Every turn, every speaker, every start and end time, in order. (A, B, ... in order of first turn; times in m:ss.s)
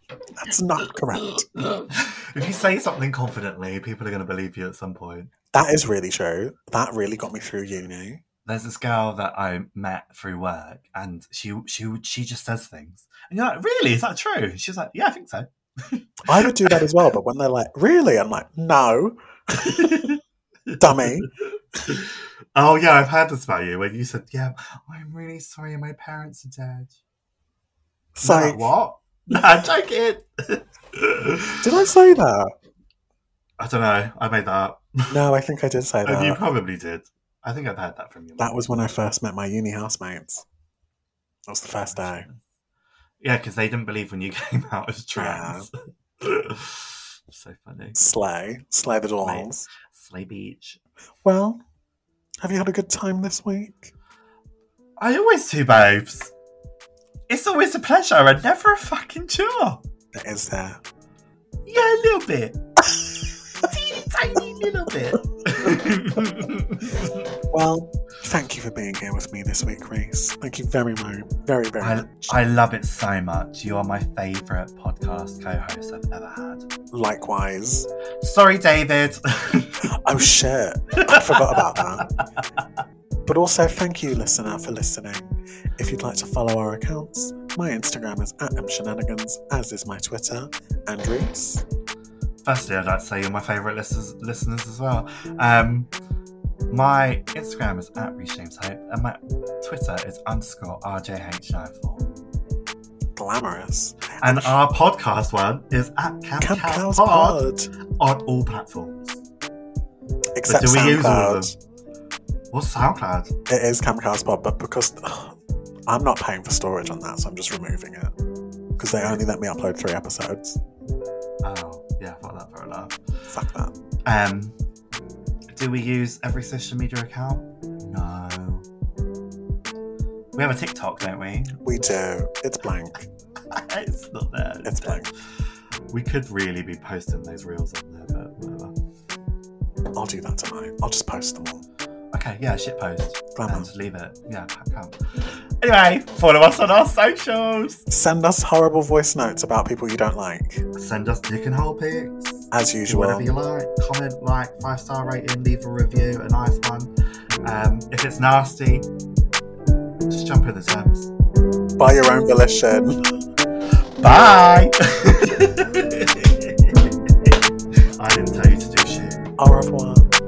0:00.3-0:01.5 A
0:01.9-0:05.3 B
0:05.5-0:08.2 A
0:08.4-0:16.8 B
0:16.2-0:20.2 A
0:19.6-0:27.0 B
0:20.8-0:21.3 A
0:28.1-0:28.7 A
0:28.2-0:31.6 B
0:31.6-0:32.5 A
0:33.6-0:35.1 B
0:35.1-0:36.4 A
0:36.0-0:38.6 B
0:38.4-0:40.4 A
0:41.5-0:42.2 A
0:41.8-0:42.4 B
0:43.2-0:48.0 B
0:45.1-0:45.7 A
0:48.0-0:49.7 A
0:49.2-0:50.8 B
0:51.2-0:51.6 A
0:52.4-0:53.9 A
0:55.0-0:56.3 B
0:57.3-0:59.8 B
1:00.1-1:00.8 A
1:01.6-1:02.6 B
1:03.5-1:07.1 B
1:07.5-1:12.4 A
1:11.8-1:16.6 B
1:16.9-1:17.9 A
1:18.2-1:19.9 B
1:19.8-1:22.1 A
1:21.0-1:21.8 B
1:23.2-1:31.6 A
1:32.4-1:35.9 B
1:36.7-1:42.1 B
1:43.2-1:44.6 A
1:44.2-1:47.4 B
1:46.4-1:47.7 A
1:48.0-1:49.2 B
1:50.4-1:51.5 A
1:50.4-1:51.5 B
1:52.5-1:53.3 B
1:53.5-1:58.1 A
1:58.8-2:00.6 A
1:59.0-1:59.2 B
2:01.4-2:03.0 B
2:03.3-2:03.7 A
2:04.0-2:04.5 B
2:05.5-2:08.6 B
2:10.4-2:11.6 B
2:11.6-2:13.1 A
2:13.5-2:15.1 B
2:14.6-2:15.1 A
2:15.9-2:18.7 B
2:19.9-2:21.6 A
2:22.1-2:25.0 B
2:23.3-2:23.7 A
2:25.6-2:27.8 B
2:27.9-2:30.6 A
2:30.8-2:36.9 B
2:32.5-2:33.3 A
2:37.4-2:38.9 B
2:40.1-2:41.1 B
2:41.8-2:43.0 A
2:44.0-2:47.4 B
2:48.0-2:49.3 B
2:49.4-2:50.1 A